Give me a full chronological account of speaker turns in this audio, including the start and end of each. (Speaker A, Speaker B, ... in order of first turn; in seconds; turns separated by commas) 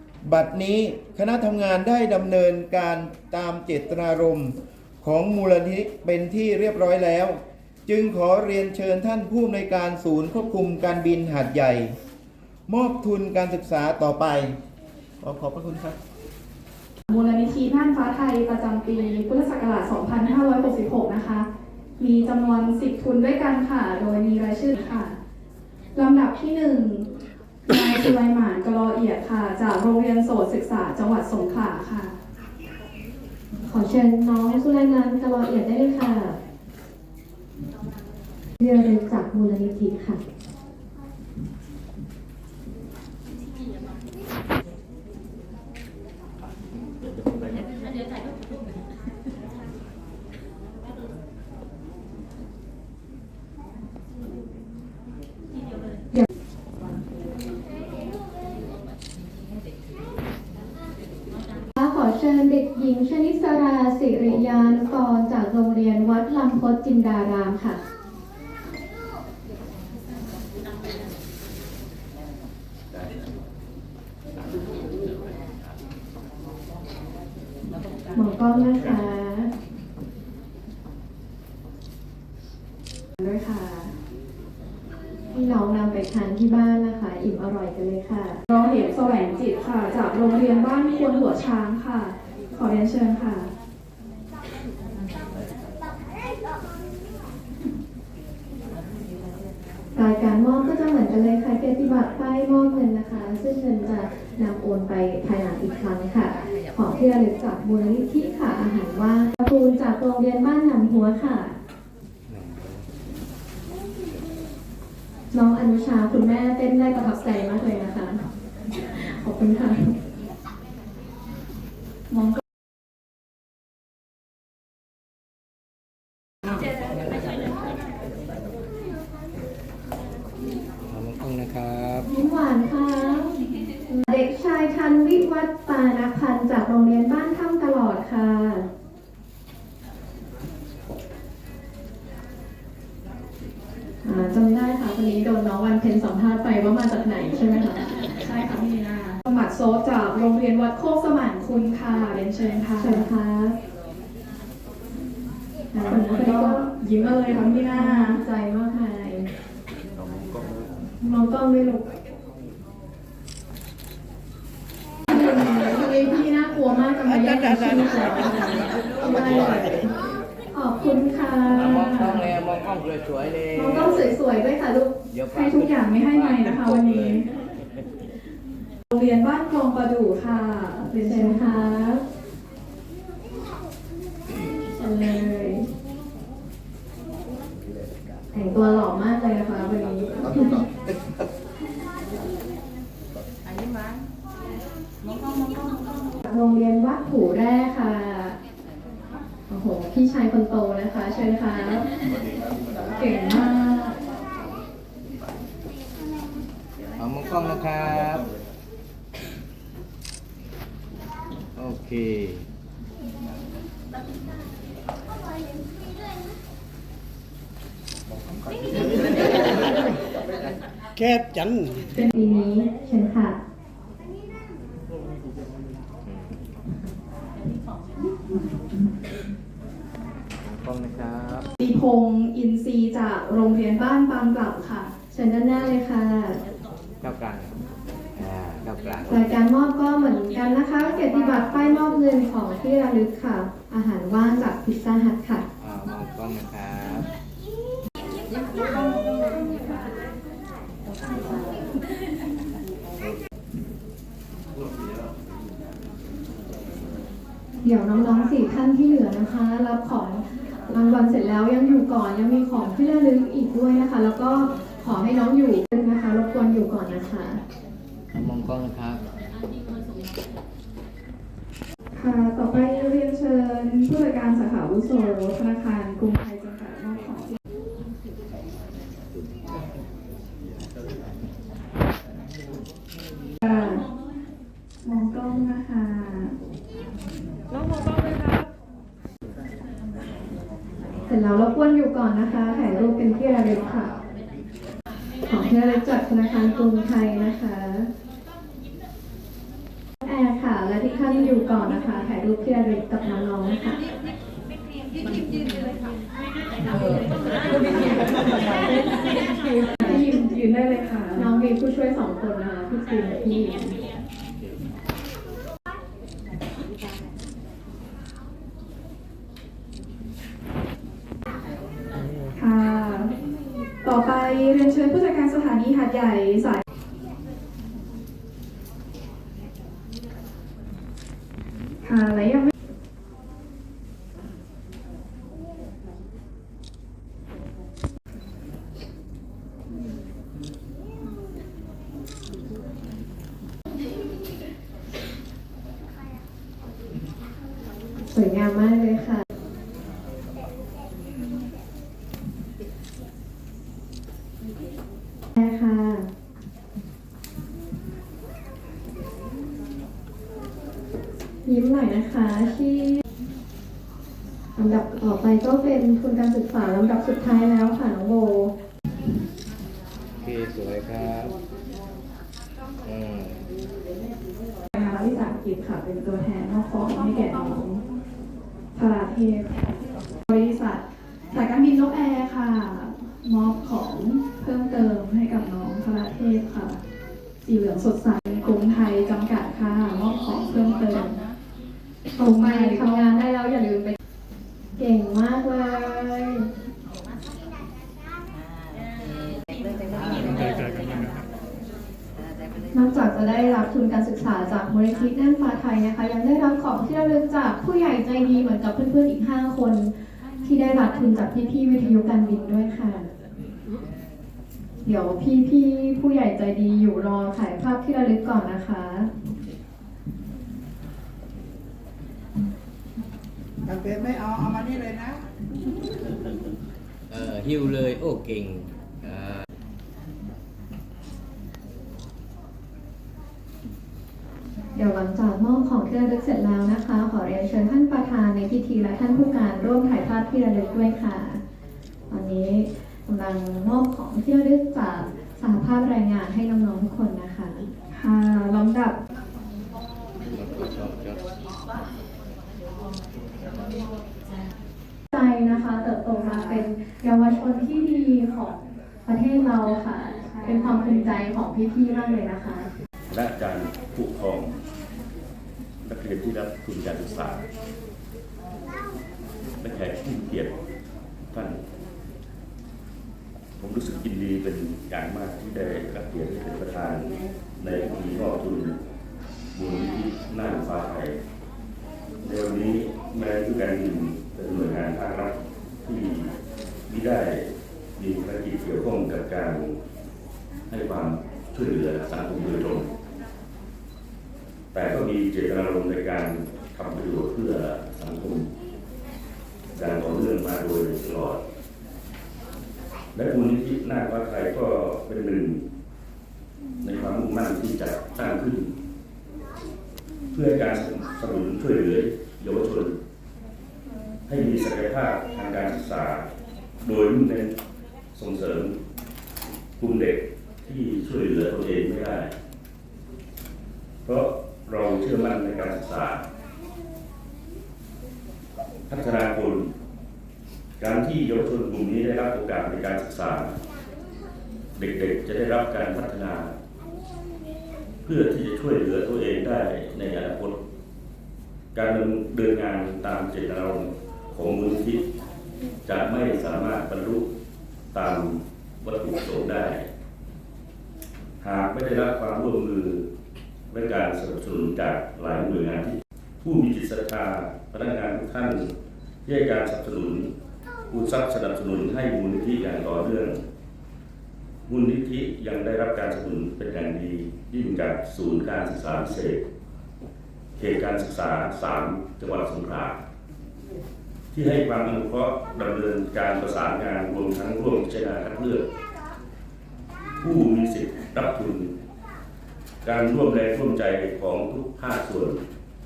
Speaker A: 0.2-12.0, Speaker A: 12.7-14.6, Speaker A: 15.2-16.0, Speaker B: 17.1-21.5, Speaker B: 22.0-25.2, Speaker B: 25.9-27.1, Speaker B: 27.6-32.2, Speaker C: 33.6-36.4, Speaker C: 38.6-40.2, Speaker C: 61.8-67.8, Speaker C: 78.1-79.5, Speaker B: 83.2-83.9, Speaker C: 85.3-88.4, Speaker B: 88.5-93.5, Speaker C: 99.9-111.6, Speaker D: 112.3-112.8, Speaker C: 115.3-118.2, Speaker C: 118.9-119.9, Speaker B: 122.1-122.4, Speaker D: 127.1-127.3, Speaker D: 130.9-132.1, Speaker C: 132.1-133.3, Speaker C: 133.9-138.7, Speaker C: 144.0-147.9, Speaker B: 148.2-153.0, Speaker C: 152.8-153.6, Speaker C: 155.7-156.7, Speaker B: 155.9-158.2, Speaker C: 157.7-159.3, Speaker C: 161.0-161.8, Speaker C: 165.1-169.8, Speaker D: 167.4-167.7, Speaker C: 170.5-172.3, Speaker D: 171.5-174.2, Speaker C: 173.5-175.0, Speaker D: 175.1-177.3, Speaker B: 175.3-177.3, Speaker B: 178.9-181.5, Speaker C: 181.0-182.0, Speaker C: 184.7-185.7, Speaker C: 188.3-190.7, Speaker C: 196.2-198.4, Speaker C: 199.5-201.9, Speaker B: 202.9-203.9, Speaker D: 207.0-208.2, Speaker D: 211.6-212.4, Speaker E: 218.8-219.5, Speaker E: 220.9-221.9, Speaker C: 222.1-223.4, Speaker D: 226.0-226.5, Speaker D: 230.4-231.5, Speaker B: 231.6-234.9, Speaker C: 235.1-236.4, Speaker D: 237.0-237.6, Speaker D: 238.2-239.2, Speaker C: 239.1-245.4, Speaker D: 245.6-247.1, Speaker C: 257.6-267.4, Speaker D: 268.1-269.0, Speaker B: 271.9-277.4, Speaker B: 283.4-283.8, Speaker B: 284.8-286.4, Speaker C: 291.1-293.9, Speaker C: 295.3-297.9, Speaker C: 300.1-303.8, Speaker B: 309.8-311.3, Speaker C: 311.1-313.8, Speaker B: 322.3-323.1, Speaker B: 323.8-326.6, Speaker B: 331.8-332.5, Speaker C: 348.1-349.2, Speaker C: 355.4-356.1, Speaker C: 361.4-363.0, Speaker C: 364.6-368.5, Speaker D: 370.2-371.3, Speaker D: 372.8-373.4, Speaker B: 374.7-377.8, Speaker B: 378.7-379.7, Speaker B: 380.2-386.8, Speaker B: 387.4-391.2, Speaker C: 392.2-394.0, Speaker B: 392.2-393.1, Speaker C: 394.8-396.5, Speaker D: 400.0-400.7, Speaker C: 402.7-413.1, Speaker C: 414.8-419.1, Speaker E: 423.7-425.1, Speaker D: 427.1-429.4, Speaker C: 434.7-441.4, Speaker C: 442.1-447.7, Speaker B: 447.9-449.0, Speaker D: 450.2-451.2, Speaker C: 455.1-462.7, Speaker B: 460.2-461.1, Speaker F: 463.1-464.6, Speaker F: 465.8-467.4, Speaker F: 469.6-470.5, Speaker F: 471.3-471.6, Speaker F: 473.6-478.8, Speaker F: 479.5-481.2, Speaker F: 482.2-485.3, Speaker F: 485.8-486.3, Speaker F: 486.9-489.8, Speaker F: 490.7-492.9, Speaker F: 494.7-498.5, Speaker F: 499.7-501.4, Speaker F: 503.1-505.6, Speaker F: 506.8-508.7, Speaker F: 510.3-513.0, Speaker F: 514.3-516.3, Speaker F: 516.8-517.5, Speaker F: 518.1-518.8, Speaker F: 519.8-522.3, Speaker F: 524.0-526.2, Speaker F: 528.9-529.7, Speaker F: 530.8-533.6, Speaker F: 534.7-536.5, Speaker F: 538.0-540.6, Speaker F: 541.7-545.0, Speaker F: 545.8-547.3, Speaker F: 547.9-549.9, Speaker F: 551.4-553.1, Speaker F: 553.7-558.7, Speaker F: 559.2-560.3, Speaker F: 560.9-563.4, Speaker F: 564.7-569.4, Speaker F: 570.5-573.0, Speaker F: 574.3-578.6, Speaker F: 580.2-581.7, Speaker F: 582.8-585.4